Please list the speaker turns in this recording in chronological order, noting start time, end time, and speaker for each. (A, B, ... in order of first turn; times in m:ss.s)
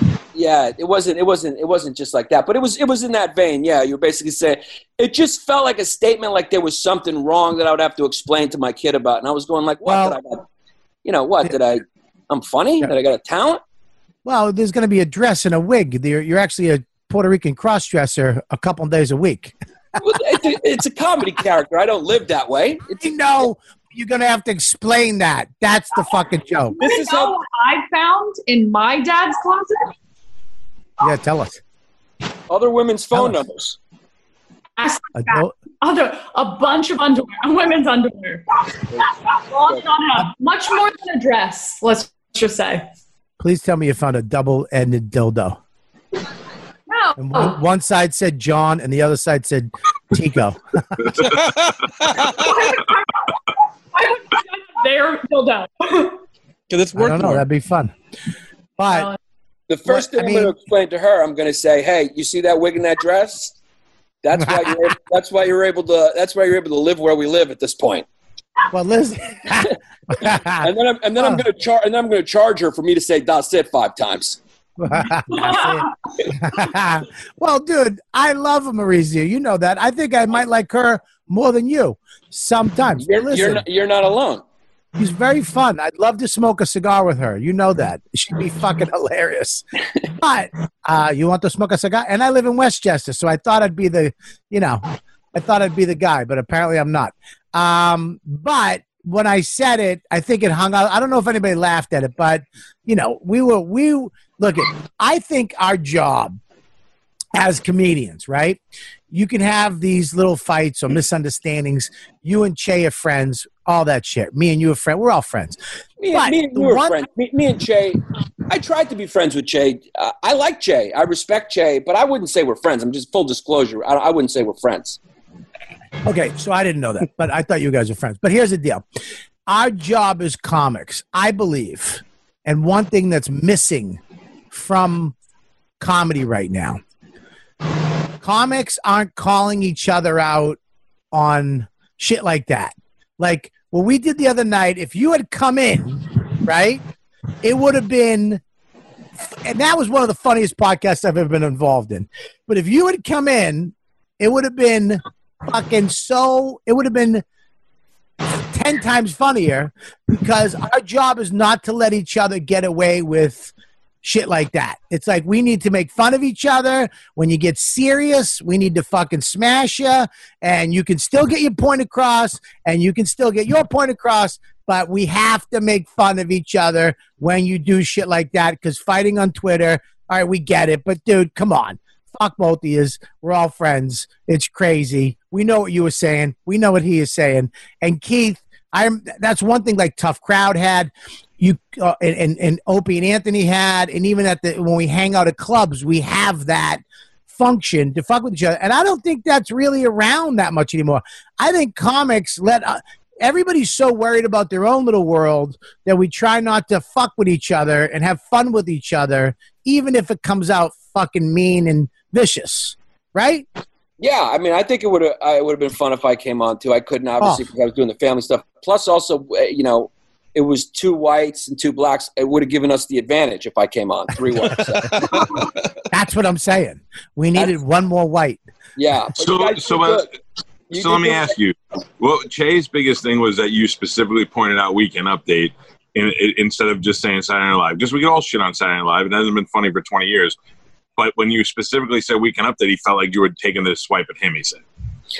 0:00.3-0:10.4 A
0:09.8-0:10.2 B
0:11.0-0:13.6 A
0:14.3-0:19.6 B
0:20.0-0:23.1 A
0:23.0-0:26.8 B
0:26.8-0:27.4 A
0:26.8-0:29.9 C
0:31.0-0:31.6 B
0:32.5-0:33.8 A
0:33.1-0:33.4 B
0:34.8-0:38.4 C
0:35.2-0:35.5 B
0:39.3-0:42.8 C
0:43.4-0:45.6 B
0:46.9-0:47.6 C
0:47.2-0:51.2 B
0:51.3-0:52.5 D
0:52.2-0:53.3 C
0:53.9-0:56.2 C
0:56.7-0:57.4 D
0:57.0-0:57.9 B
0:58.8-0:59.1 B
0:58.9-0:59.2 C
0:59.7-1:03.5 A
0:59.9-1:00.6 B
1:04.2-1:08.0 A
1:04.4-1:04.8 B
1:08.7-1:11.4 B
1:10.6-1:14.4 A
1:14.8-1:23.6 B
1:15.3-1:15.9 C
1:23.0-1:24.4 A
1:25.0-1:29.6 B
1:30.2-1:34.8 B
1:35.3-1:46.4 B
1:47.3-1:48.6 B
1:49.1-1:55.6 B
1:56.0-2:05.0 A
1:56.1-1:57.0 B
2:06.0-2:08.8 B
2:09.5-2:14.0 B
2:14.5-2:15.2 B
2:15.8-2:16.8 B
2:18.2-2:20.6 B
2:21.1-2:26.8 B
2:27.4-2:28.4 B
2:29.3-2:37.2 B
2:38.5-2:43.5 B
2:44.0-3:33.5 B
3:34.0-3:45.1 A
3:44.4-3:45.2 B
3:45.9-3:48.4 B
3:48.8-3:50.1 A
3:49.2-3:50.1 E
3:50.7-3:51.3 A
3:50.7-4:00.3 E
4:01.0-4:04.6 E